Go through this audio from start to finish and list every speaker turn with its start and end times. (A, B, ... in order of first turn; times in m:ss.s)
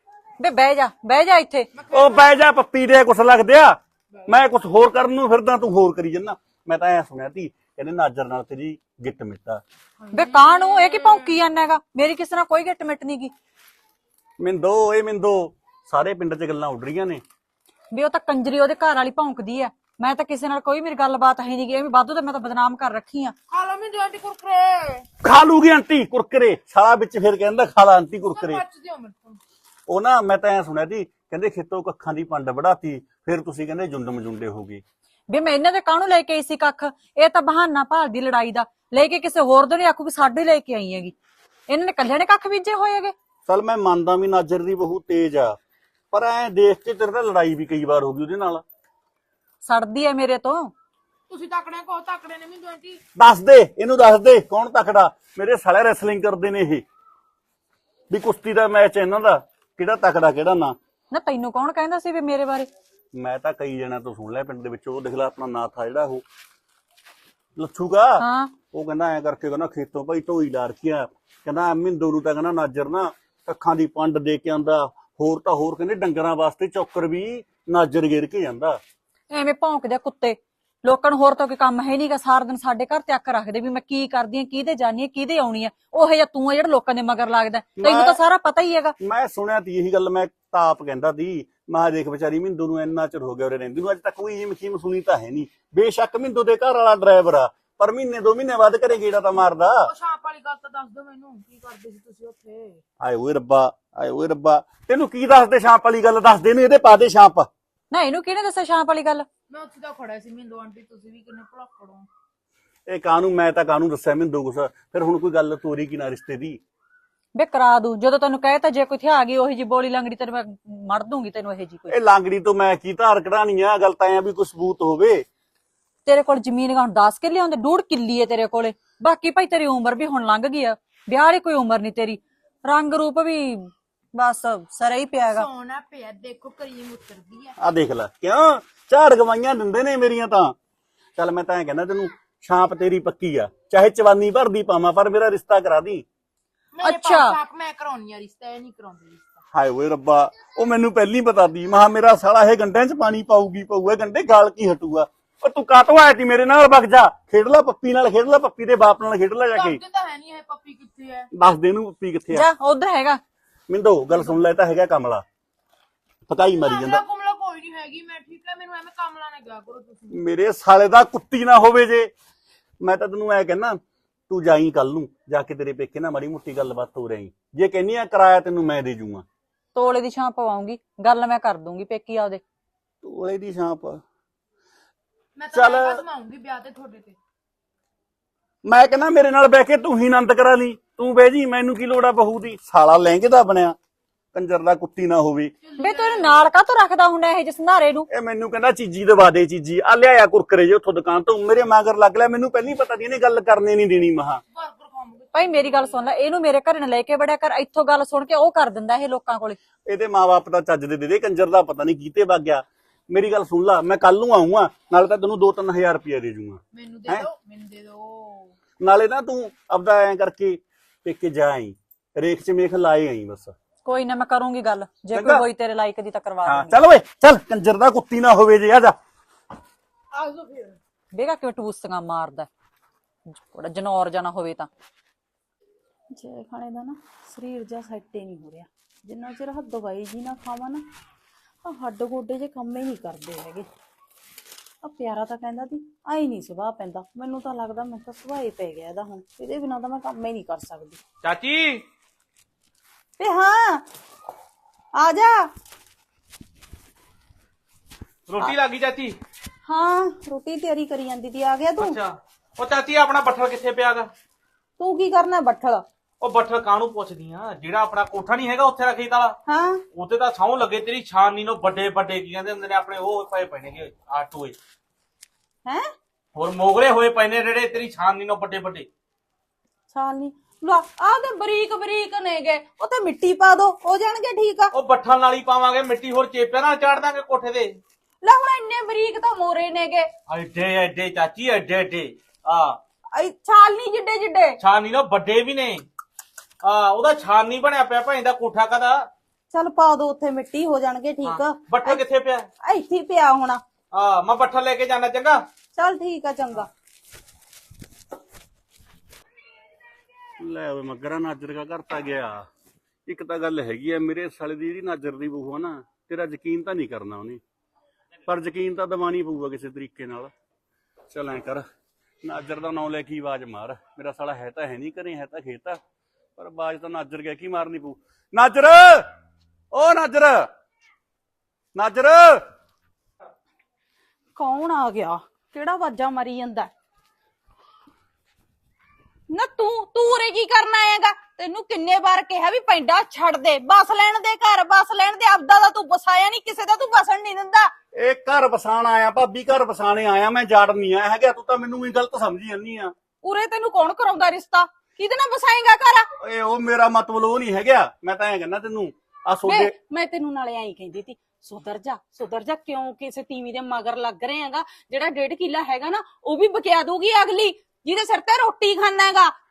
0:00.4-0:01.7 A
0:01.8-0:02.3 B
0:01.9-0:09.6 C
0:10.0-0:11.4 B
0:10.1-0:13.3 A
0:14.4-0:17.2 C
0:17.9-0:23.4 A
0:23.5-0:25.1 B
0:25.2-0:28.6 C
0:28.3-0:29.4 B
0:29.9-0:34.8 C
0:35.3-0:41.1 A
0:41.7-0:43.1 A
0:43.5-0:45.6 C
0:46.1-0:48.6 C
0:49.6-0:50.7 A
0:51.3-0:53.0 B
0:53.2-0:56.8 C
0:58.1-1:00.8 C
1:01.1-1:02.7 A
1:03.1-1:06.2 C
1:07.6-1:18.8 C
1:08.2-1:08.5 A
1:19.3-1:29.0 A
1:27.8-1:28.2 C
1:29.0-1:39.9 C
1:39.8-1:42.8 B
1:43.0-1:47.5 C
1:47.9-1:49.3 A
1:49.5-1:52.1 B
1:52.9-1:56.6 C
1:57.4-2:01.9 A
2:01.9-2:05.2 C
2:06.1-2:15.5 A
2:15.3-2:17.6 B
2:17.6-2:20.6 C
2:21.2-2:26.0 C
2:26.8-2:29.4 B
2:26.8-2:27.4 A
2:29.5-2:39.8 C
2:39.5-2:41.3 B
2:41.3-2:42.5 C
2:42.3-2:43.2 A
2:43.7-2:45.2 C
2:46.3-2:47.0 C
2:46.5-2:50.2 B
2:50.1-2:52.1 C
2:52.8-2:53.8 C
2:54.3-2:59.2 C
2:59.8-3:02.4 A
3:03.0-3:04.0 C
3:05.4-3:07.2 B
3:05.5-3:06.0 C
3:08.6-3:13.8 C
3:14.3-3:15.5 C
3:15.6-3:16.5 B
3:15.8-3:18.1 A
3:18.1-3:24.4 C
3:24.5-3:26.1 B
3:25.3-3:29.6 A
3:29.9-3:37.3 C
3:36.7-3:38.6 B
3:38.8-3:43.6 C
3:43.8-3:46.8 A
3:45.1-3:45.5 C
3:46.4-3:49.0 C
3:50.1-3:50.8 B
3:51.1-3:52.5 A
3:53.3-3:54.7 A
3:56.1-4:00.8 D
4:01.6-4:03.7 D
4:04.8-4:11.0 D
4:11.2-4:11.8 E
4:13.2-4:13.8 D
4:15.0-4:15.5 D
4:18.3-4:19.2 E
4:19.7-4:22.0 D
4:21.8-4:24.1 E
4:24.8-4:25.8 D
4:26.2-4:29.4 E
4:29.5-4:29.8 D
4:30.0-4:34.6 E
4:35.7-4:35.9 D
4:36.4-4:38.9 E
4:39.9-4:44.7 D
4:44.7-4:47.8 E
4:48.2-4:50.1 D
4:50.3-4:52.8 E
4:53.1-4:54.6 D
4:54.6-4:55.9 E
4:56.6-4:59.1 E
4:59.5-5:02.0 D
5:01.2-5:02.5 E
5:02.6-5:03.6 D
5:03.9-5:05.4 E
5:05.8-5:06.7 D
5:10.4-5:12.5 C
5:13.1-5:17.4 C
5:18.3-5:20.3 C
5:21.1-5:21.6 C
5:22.2-5:25.8 C
5:26.4-5:29.1 C
5:29.7-5:30.5 C
5:31.7-5:32.4 C
5:34.4-5:36.7 D
5:39.3-5:47.7 D
5:47.9-5:52.9 C
5:53.2-5:56.1 D
5:56.2-5:59.8 C
5:59.5-6:09.3 D